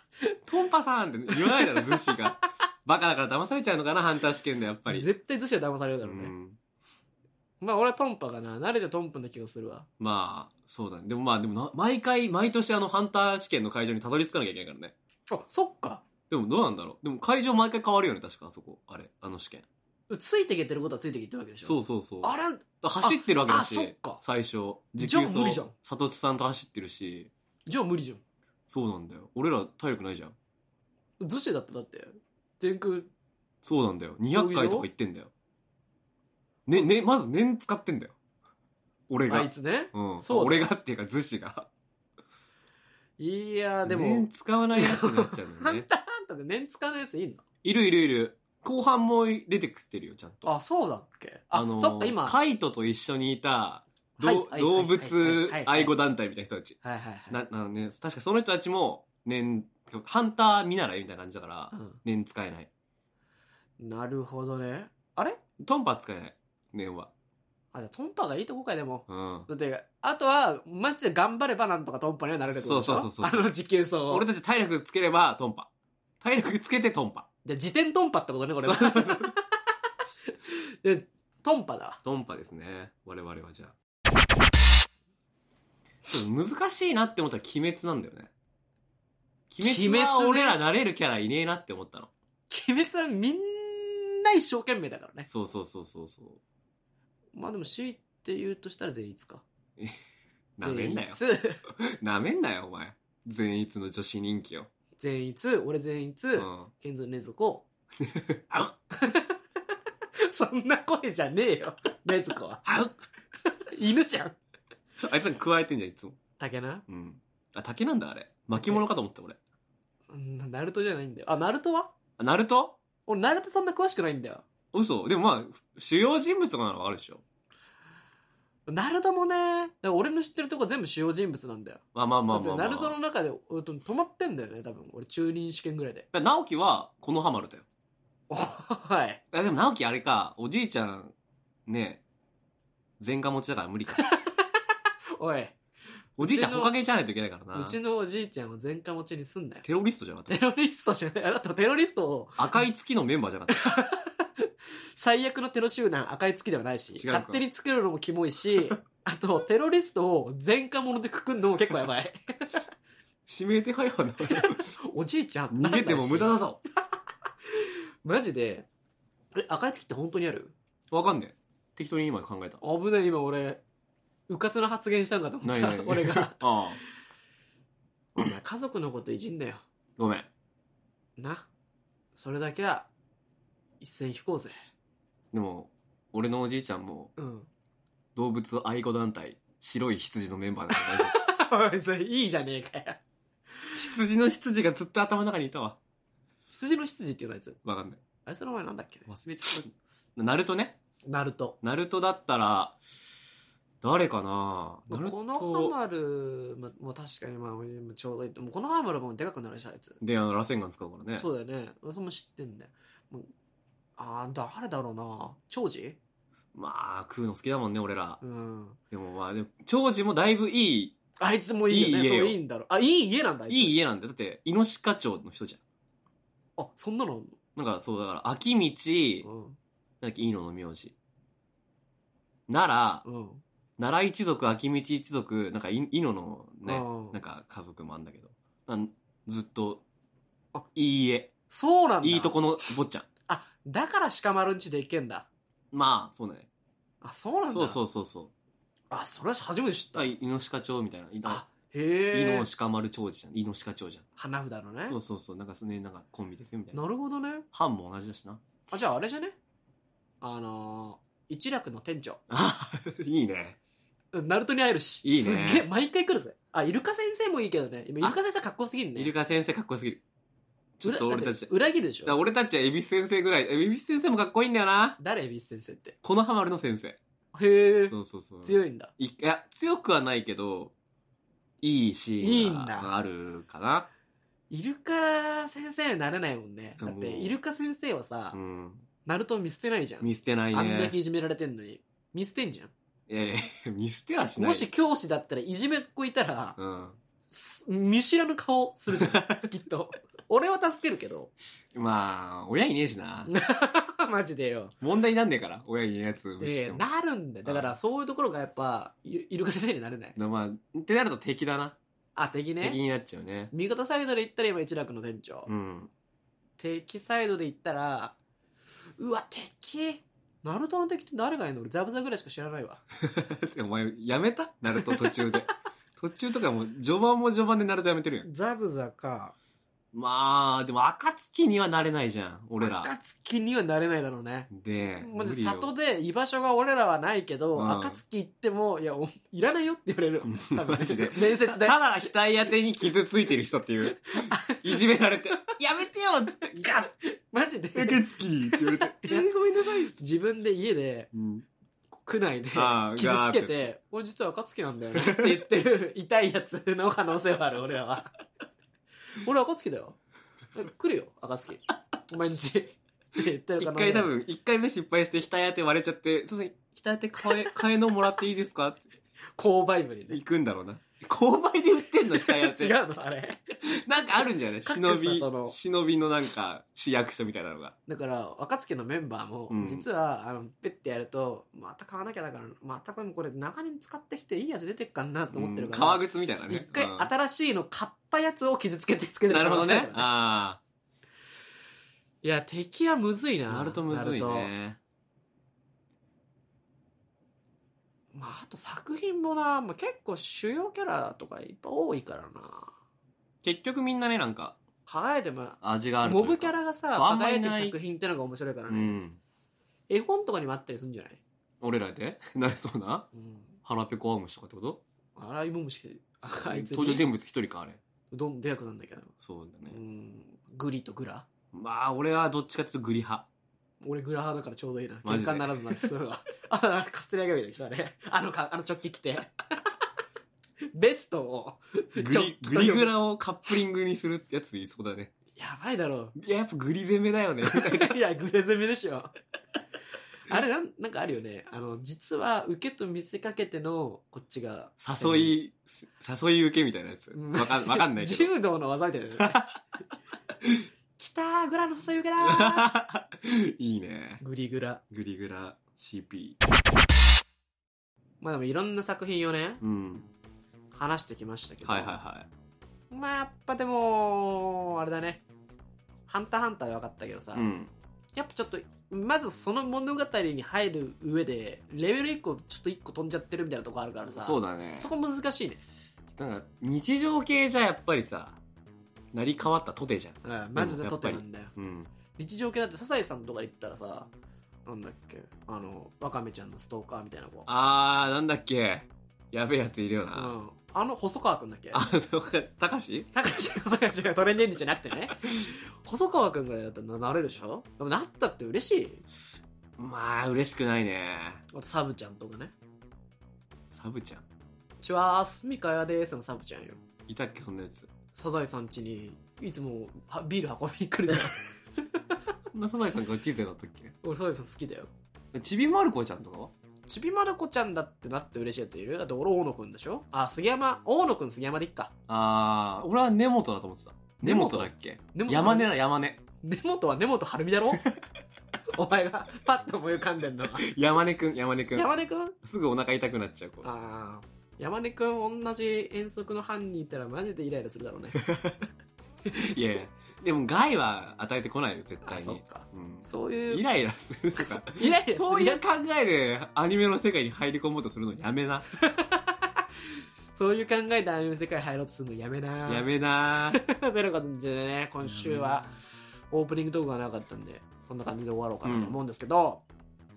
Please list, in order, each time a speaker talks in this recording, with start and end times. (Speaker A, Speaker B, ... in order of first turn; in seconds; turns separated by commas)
Speaker A: 0.5-5.1, Speaker B: 1.3-2.1, Speaker B: 4.9-6.3, Speaker A: 6.0-6.6, Speaker B: 7.6-9.9, Speaker A: 10.0-14.9, Speaker B: 15.3-16.0, Speaker A: 16.3-19.6, Speaker B: 20.1-24.2, Speaker A: 21.6-27.3, Speaker B: 25.0-25.7, Speaker B: 27.7-28.2, Speaker A: 28.7-30.3, Speaker B: 31.2-33.1, Speaker A: 33.6-35.3, Speaker B: 34.3-34.9, Speaker A: 36.7-38.1, Speaker A: 39.1-41.7, Speaker B: 39.3-40.7, Speaker B: 43.2-47.4, Speaker A: 43.8-45.9, Speaker A: 47.6-50.5, Speaker B: 50.4-52.4, Speaker A: 51.5-56.8, Speaker B: 54.2-55.9, Speaker B: 56.8-57.4, Speaker A: 57.3-62.7, Speaker B: 61.7-62.0, Speaker B: 63.8-65.4, Speaker A: 65.6-67.1, Speaker B: 67.7-74.3, Speaker A: 69.1-69.5, Speaker A: 72.5-73.5, Speaker A: 74.1-75.7, Speaker A: 76.2-77.3, Speaker B: 77.4-79.4, Speaker A: 78.6-79.3, Speaker B: 80.5-82.0, Speaker A: 82.0-83.7, Speaker A: 86.1-88.3, Speaker A: 89.5-92.1, Speaker B: 89.6-90.6, Speaker B: 92.5-95.3, Speaker A: 95.3-96.4, Speaker B: 97.3-99.4, Speaker A: 100.6-104.7, Speaker B: 100.6-101.6, Speaker B: 105.0-107.7, Speaker A: 106.3-106.7, Speaker A: 108.0-108.7, Speaker B: 108.9-109.4, Speaker B: 110.2-112.9, Speaker B: 113.7-114.4, Speaker A: 115.0-116.2, Speaker B: 116.4-116.8, Speaker A: 116.9-119.4, Speaker B: 118.5-118.8, Speaker B: 120.1-121.9, Speaker A: 122.2-122.8, Speaker B: 123.0-124.4, Speaker A: 124.7-127.2, Speaker B: 128.7-136.1, Speaker A: 131.9-132.9, Speaker A: 136.1-137.6, Speaker B: 138.3-139.2, Speaker A: 139.3-141.1, Speaker A: 141.7-142.0, Speaker A: 143.0-144.0, Speaker B: 144.0-144.4, Speaker B: 145.2-145.6, Speaker B: 146.2-146.7, Speaker A: 146.2-147.8, Speaker B: 147.5-149.6, Speaker A: 149.6-150.4, Speaker B: 150.3-152.6, Speaker A: 152.4-153.6, Speaker B: 153.5-162.6, Speaker A: 156.9-157.4, Speaker A: 163.3-164.7, Speaker B: 164.2-166.3, Speaker A: 165.5-166.6, Speaker B: 167.5-168.7, Speaker B: 169.3-170.5, Speaker A: 170.9-172.6, Speaker B: 172.6-173.6, Speaker B: 174.3-176.4, Speaker A: 175.4-176.8, Speaker B: 178.1-179.6, Speaker A: 180.0-180.3, Speaker B: 181.2-181.5, Speaker B: 182.1-182.9, Speaker B: 183.8-184.5, Speaker A: 185.3-187.1, Speaker B: 187.2-187.5, Speaker A: 188.1-191.2, Speaker B: 190.7-193.0, Speaker A: 193.8-195.8, Speaker B: 196.5-197.6, Speaker A: 197.6-198.0, Speaker B: 198.2-199.1, Speaker A: 199.1-200.8, Speaker B: 201.1-201.6, Speaker A: 201.6-202.8, Speaker A: 203.8-205.8, Speaker B: 204.9-210.0, Speaker A: 210.0-211.3, Speaker B: 211.2-213.3, Speaker B: 214.0-216.0, Speaker A: 216.5-218.2, Speaker B: 218.2-218.8, Speaker A: 218.9-221.0, Speaker B: 221.2-223.8, Speaker A: 221.7-222.4, Speaker A: 223.5-225.6, Speaker B: 226.6-227.4, Speaker A: 227.6-229.3, Speaker B: 229.2-229.6, Speaker A: 230.0-230.9, Speaker A: 232.5-233.0, Speaker B: 233.0-233.4, Speaker A: 233.8-239.8, Speaker B: 236.7-237.2, Speaker A: 240.7-241.3, Speaker B: 241.5-242.4, Speaker A: 242.0-243.1, Speaker B: 243.3-245.3, Speaker A: 245.7-246.5, Speaker B: 247.0-247.8, Speaker A: 247.5-248.3, Speaker B: 248.9-250.1, Speaker A: 249.9-251.4, Speaker B: 251.2-252.5, Speaker A: 252.1-254.0, Speaker B: 254.2-255.0, Speaker A: 254.9-256.8, Speaker B: 256.7-257.5, Speaker A: 257.5-258.5, Speaker B: 258.7-259.4, Speaker B: 260.2-262.2, Speaker A: 262.3-263.6, Speaker B: 264.1-269.1, Speaker A: 265.0-265.7, Speaker A: 268.9-270.0, Speaker A: 270.8-271.5, Speaker B: 270.8-272.2, Speaker A: 272.0-275.0, Speaker B: 275.0-275.9, Speaker A: 276.0-277.0, Speaker B: 277.3-278.9, Speaker A: 277.9-280.7, Speaker A: 281.6-283.9, Speaker B: 282.2-282.9, Speaker B: 284.5-288.4, Speaker A: 286.8-287.4, Speaker A: 288.3-288.9, Speaker B: 289.1-292.7, Speaker A: 290.0-290.9, Speaker A: 293.1-294.7, Speaker B: 294.4-296.6, Speaker A: 296.6-297.0, Speaker B: 297.3-301.3, Speaker A: 298.9-299.5, Speaker A: 301.7-303.3, Speaker B: 303.2-304.7, Speaker A: 304.8-306.8, Speaker B: 306.4-310.2, Speaker A: 307.4-307.8, Speaker A: 310.1-311.8, Speaker B: 312.1-312.8, Speaker A: 312.6-313.5, Speaker B: 313.5-315.5, Speaker A: 315.5-315.9, Speaker B: 316.6-318.1, Speaker B: 319.0-322.8, Speaker A: 323.0-328.3, Speaker B: 328.2-329.3, Speaker A: 329.9-332.9, Speaker B: 332.6-341.8, Speaker A: 334.5-335.7, Speaker A: 337.5-338.0, Speaker A: 340.2-346.8, Speaker B: 344.2-344.8, Speaker B: 346.6-351.1, Speaker A: 347.7-349.9, Speaker A: 351.1-351.4, Speaker B: 351.9-358.1, Speaker A: 352.5-353.7, Speaker A: 354.9-355.4, Speaker B: 359.2-360.0, Speaker B: 360.5-364.1, Speaker A: 363.6-368.9, Speaker B: 369.4-370.2, Speaker A: 370.1-372.7, Speaker B: 372.1-373.5, Speaker A: 373.6-377.8, Speaker B: 374.6-375.6, Speaker B: 377.9-390.1, Speaker A: 379.5-379.9, Speaker A: 385.3-387.1, Speaker A: 389.3-390.6, Speaker B: 392.2-394.5, Speaker A: 393.5-394.8, Speaker B: 398.1-402.7, Speaker A: 403.4-404.6, Speaker B: 404.9-409.0, Speaker A: 405.6-407.8, Speaker A: 408.7-409.2, Speaker B: 409.9-411.2, Speaker A: 411.6-413.1, Speaker B: 413.1-413.6, Speaker A: 413.6-414.8, Speaker B: 415.1-417.1, Speaker A: 416.3-417.8, Speaker B: 418.1-419.1, Speaker A: 419.2-419.8, Speaker B: 419.7-421.2, Speaker A: 421.5-423.3, Speaker B: 423.8-429.3, Speaker A: 425.0-425.9, Speaker B: 430.7-433.0, Speaker A: 432.0-435.1, Speaker B: 435.4-436.1, Speaker A: 436.1-438.0, Speaker B: 437.4-439.1, Speaker B: 440.3-445.4, Speaker A: 444.8-448.3, Speaker B: 447.1-449.4, Speaker A: 449.2-449.6, Speaker B: 451.0-452.7, Speaker A: 452.2-454.2, Speaker B: 454.2-454.8, Speaker A: 454.9-456.4, Speaker B: 458.2-459.6, Speaker A: 459.6-460.1, Speaker B: 460.7-462.0, Speaker A: 461.6-462.3, Speaker B: 462.9-465.2, Speaker B: 466.1-467.4, Speaker A: 467.3-467.7, Speaker B: 468.1-475.6, Speaker A: 474.2-474.9, Speaker A: 476.1-478.4, Speaker A: 479.1-481.9, Speaker B: 480.2-481.5, Speaker B: 482.1-484.1, Speaker B: 484.6-487.5, Speaker A: 487.5-490.3, Speaker B: 490.1-491.9, Speaker A: 491.7-493.1, Speaker B: 493.1-499.0, Speaker A: 499.8-501.4, Speaker B: 501.5-502.5, Speaker A: 503.7-504.2, Speaker B: 504.8-506.8, Speaker A: 507.1-507.9, Speaker B: 508.1-511.8, Speaker A: 512.5-513.9, Speaker B: 514.0-514.9, Speaker A: 515.3-516.5, Speaker B: 516.9-521.9, Speaker A: 522.1-526.2, Speaker B: 524.2-525.7, Speaker B: 526.4-527.8, Speaker B: 528.7-530.7, Speaker A: 530.5-533.7, Speaker B: 531.7-532.4, Speaker B: 533.6-538.2, Speaker A: 538.2-538.6, Speaker A: 539.3-548.7, Speaker B: 542.0-543.6, Speaker B: 544.6-545.6, Speaker B: 548.8-549.6, Speaker B: 550.3-552.9, Speaker A: 552.7-553.6, Speaker B: 553.5-555.7, Speaker A: 555.0-555.6, Speaker B: 556.3-559.6, Speaker A: 558.6-559.0